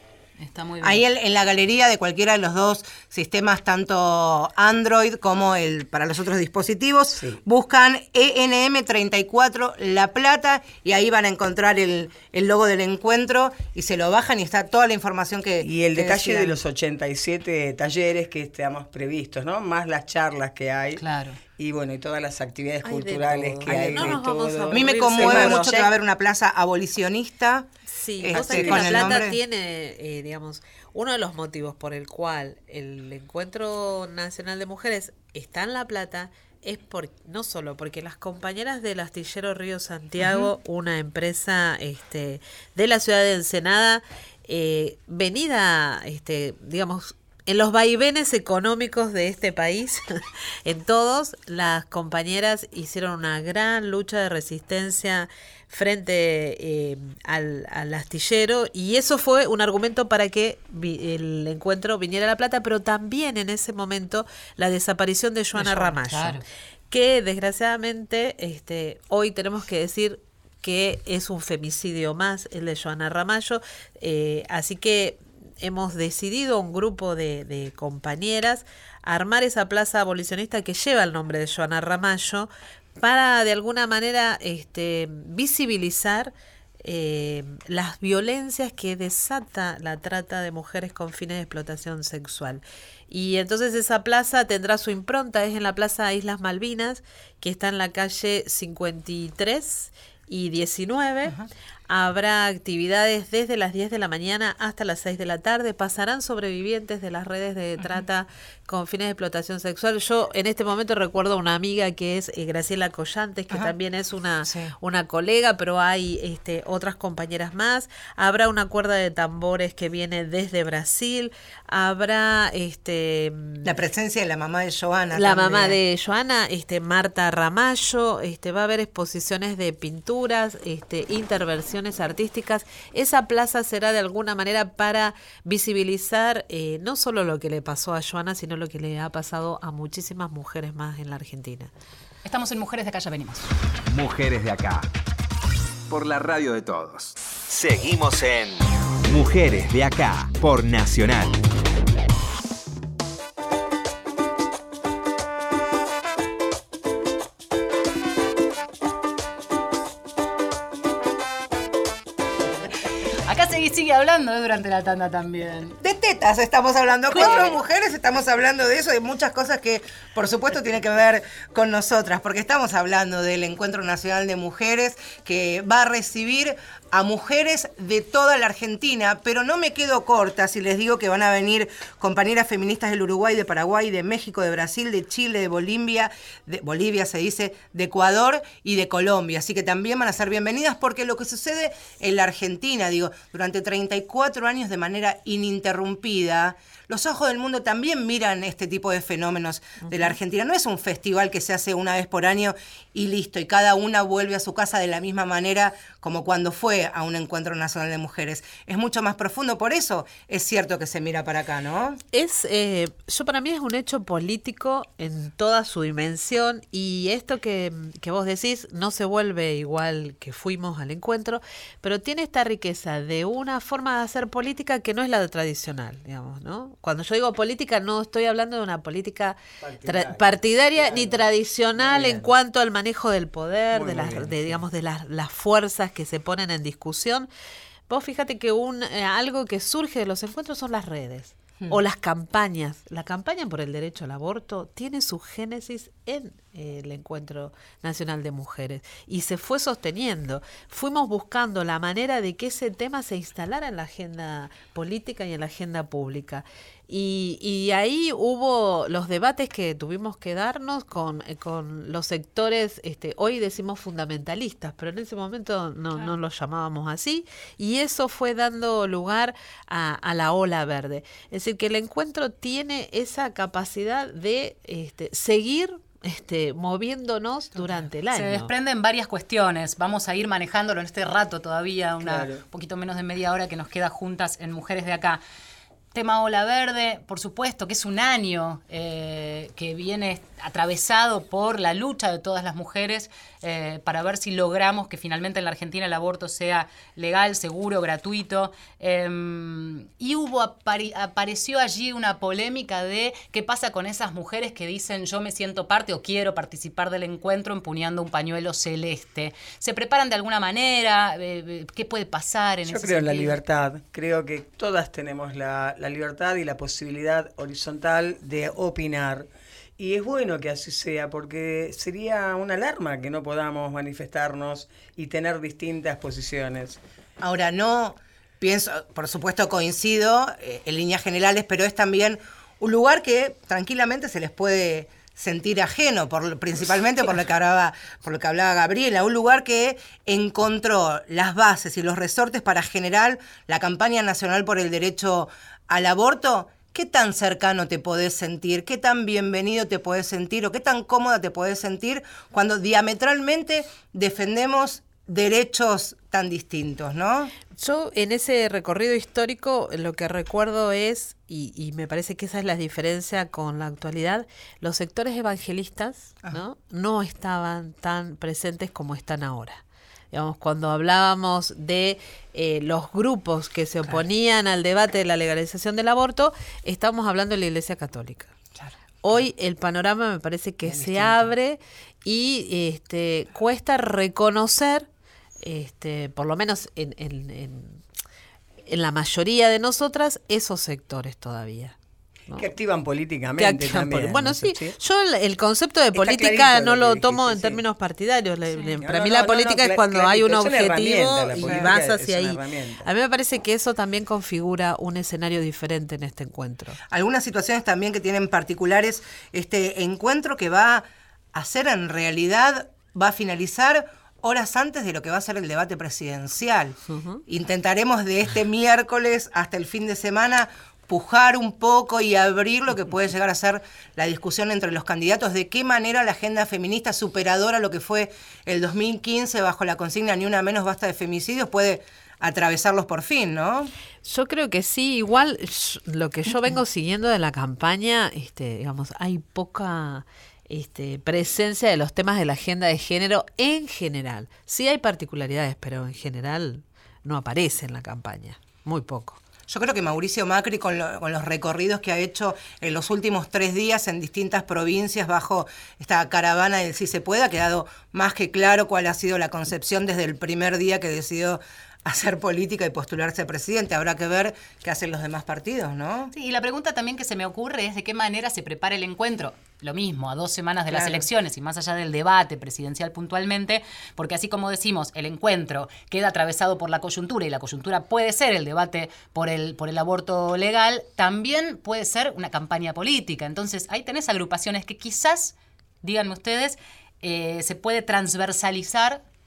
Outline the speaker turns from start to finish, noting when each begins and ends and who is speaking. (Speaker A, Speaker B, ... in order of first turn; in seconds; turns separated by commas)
Speaker A: 0.4-1.0, Speaker B: 0.8-16.6, Speaker C: 15.6-21.0, Speaker A: 21.0-21.4, Speaker C: 21.6-25.9, Speaker D: 22.8-25.7, Speaker B: 23.8-24.1, Speaker B: 24.7-27.7, Speaker D: 27.9-101.3, Speaker B: 28.2-29.4, Speaker C: 28.3-29.1, Speaker A: 65.5-66.4, Speaker D: 101.9-123.7, Speaker B: 114.4-114.7, Speaker B: 123.6-125.8, Speaker D: 125.1-141.7, Speaker A: 142.2-143.5, Speaker E: 143.9-144.9, Speaker E: 145.9-151.4, Speaker A: 163.2-165.8, Speaker B: 165.8-212.0, Speaker A: 167.1-167.5, Speaker D: 212.1-237.3, Speaker C: 229.6-231.2, Speaker C: 231.7-232.3, Speaker C: 233.7-234.6, Speaker D: 237.9-278.5, Speaker A: 277.7-285.2, Speaker C: 282.0-282.4, Speaker A: 285.9-313.4, Speaker C: 312.6-326.8, Speaker B: 327.2-357.3, Speaker D: 357.6-378.3, Speaker D: 379.0-384.9, Speaker B: 380.6-381.1, Speaker D: 385.4-387.8, Speaker D: 388.7-391.7, Speaker C: 392.3-394.8, Speaker D: 393.4-406.8, Speaker C: 395.9-397.6, Speaker C: 398.8-402.9, Speaker B: 401.4-401.7, Speaker B: 406.9-433.7, Speaker D: 416.9-417.2, Speaker D: 434.0-449.2, Speaker B: 449.5-466.1, Speaker A: 466.1-489.0, Speaker B: 470.7-471.1